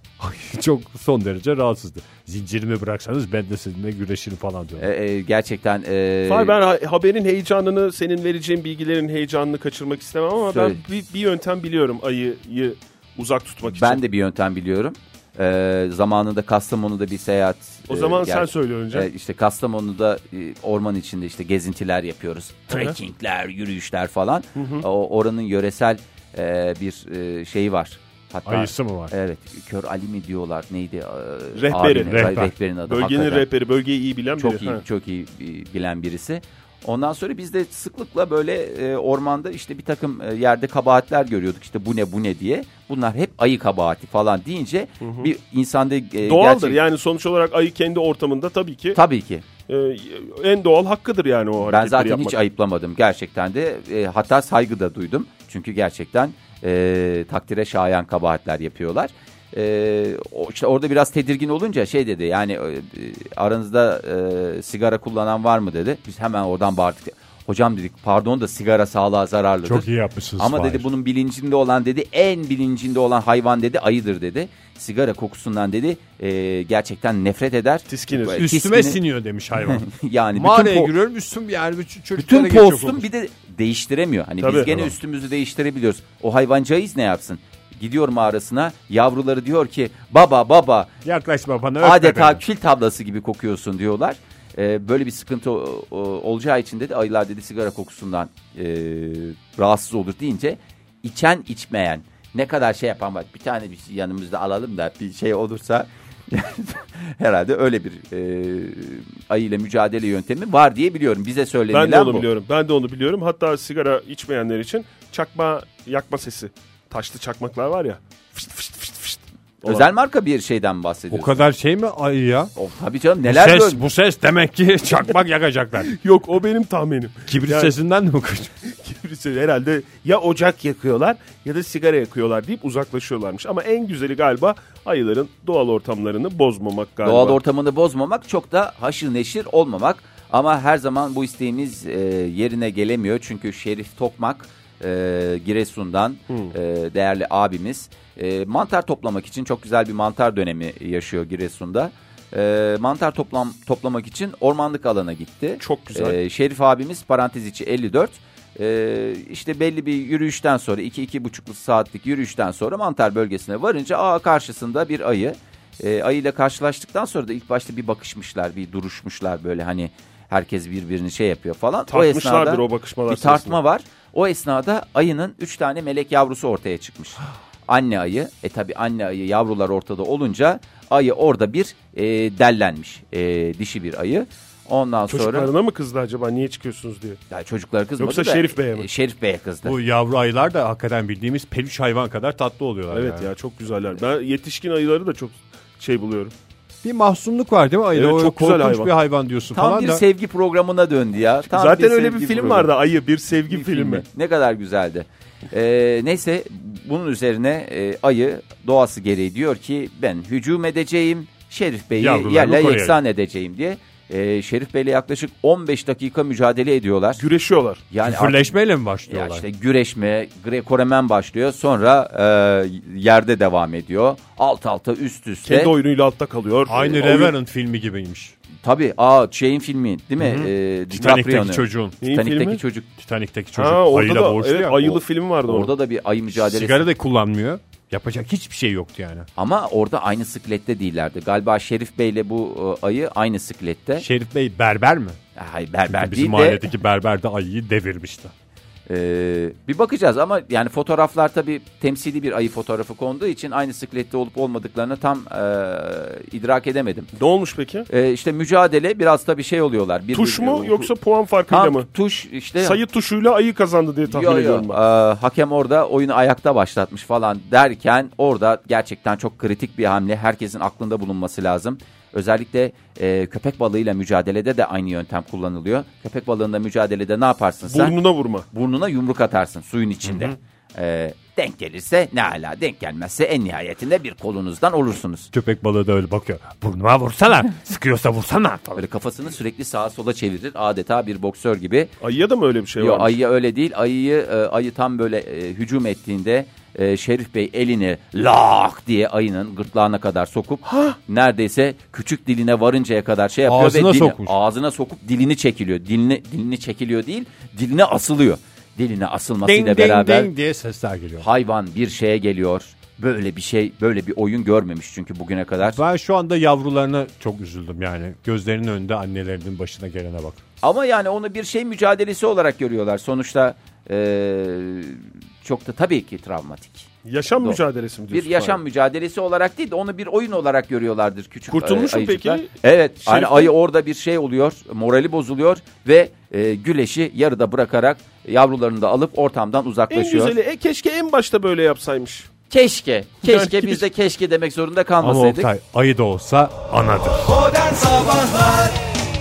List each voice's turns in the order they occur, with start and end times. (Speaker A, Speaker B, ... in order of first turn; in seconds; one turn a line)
Speaker A: 0.2-4.9
Speaker B: 4.8-6.6
Speaker C: 6.2-14.0
Speaker B: 10.4-10.8
Speaker B: 13.7-33.5
Speaker C: 17.9-19.1
Speaker C: 22.7-23.0
Speaker C: 24.6-24.8
Speaker A: 28.4-29.1
Speaker C: 31.5-32.3
Speaker A: 32.1-32.5
Speaker C: 32.9-34.8
Speaker B: 34.4-46.8
Speaker C: 45.0-45.3
Speaker C: 46.2-49.0
Speaker B: 48.9-49.4
Speaker C: 49.7-52.4
Speaker B: 51.6-79.0
Speaker A: 69.6-70.9
Speaker C: 77.9-78.4
Speaker A: 78.3-83.0
Speaker B: 79.5-80.9
Speaker B: 82.2-90.9
Speaker C: 84.4-84.8
Speaker A: 91.0-92.4
Speaker B: 91.8-112.2
Speaker C: 111.7-119.9
Speaker B: 119.6-121.4
Speaker A: 121.1-122.5
Speaker B: 122.6-123.8
Speaker A: 123.2-125.9
Speaker C: 125.8-127.8
Speaker A: 127.3-128.5
Speaker C: 128.6-137.4
Speaker B: 137.0-185.5
Speaker C: 155.6-156.2
Speaker C: 171.9-173.6
Speaker C: 185.1-187.2
Speaker B: 187.3-189.8
Speaker C: 188.0-188.9
Speaker A: 189.6-193.3
Speaker C: 192.9-196.3
Speaker A: 196.8-200.0
Speaker C: 197.9-198.9
Speaker B: 199.6-202.7
Speaker C: 201.5-204.1
Speaker B: 203.5-217.2
Speaker A: 211.9-213.0
Speaker C: 217.2-217.8
Speaker B: 217.9-218.5
Speaker A: 218.0-219.4
Speaker B: 219.1-225.7
Speaker C: 225.4-227.3
Speaker A: 226.7-228.3
Speaker B: 228.6-232.9
Speaker A: 230.2-232.0
Speaker C: 232.0-232.6
Speaker A: 233.0-234.9
Speaker C: 233.6-235.7
Speaker B: 235.4-236.9
Speaker A: 236.3-239.3
Speaker B: 239.4-244.1
Speaker A: 244.0-245.2
Speaker B: 245.3-246.6
Speaker A: 245.9-248.3
Speaker B: 248.9-257.1
Speaker C: 257.2-257.9
Speaker B: 257.9-260.9
Speaker C: 260.1-261.9
Speaker B: 261.5-262.8
Speaker C: 262.6-264.8
Speaker B: 264.1-277.9
Speaker C: 277.7-278.4
Speaker B: 278.5-285.3
Speaker A: 280.1-280.3
Speaker A: 285.3-288.8
Speaker B: 288.8-291.9
Speaker C: 292.0-293.2
Speaker B: 292.8-310.3
Speaker C: 300.6-301.0
Speaker A: 303.5-304.3
Speaker A: 309.4-311.2
Speaker B: 311.2-315.8
Speaker A: 315.6-320.4
Speaker B: 320.6-326.9
Speaker C: 327.1-328.6
Speaker B: 328.1-340.3
Speaker C: 331.5-332.5
Speaker C: 333.0-333.5
Speaker C: 339.9-342.3
Speaker B: 342.5-345.5
Speaker C: 343.2-343.8
Speaker A: 345.0-347.4
Speaker B: 347.6-348.5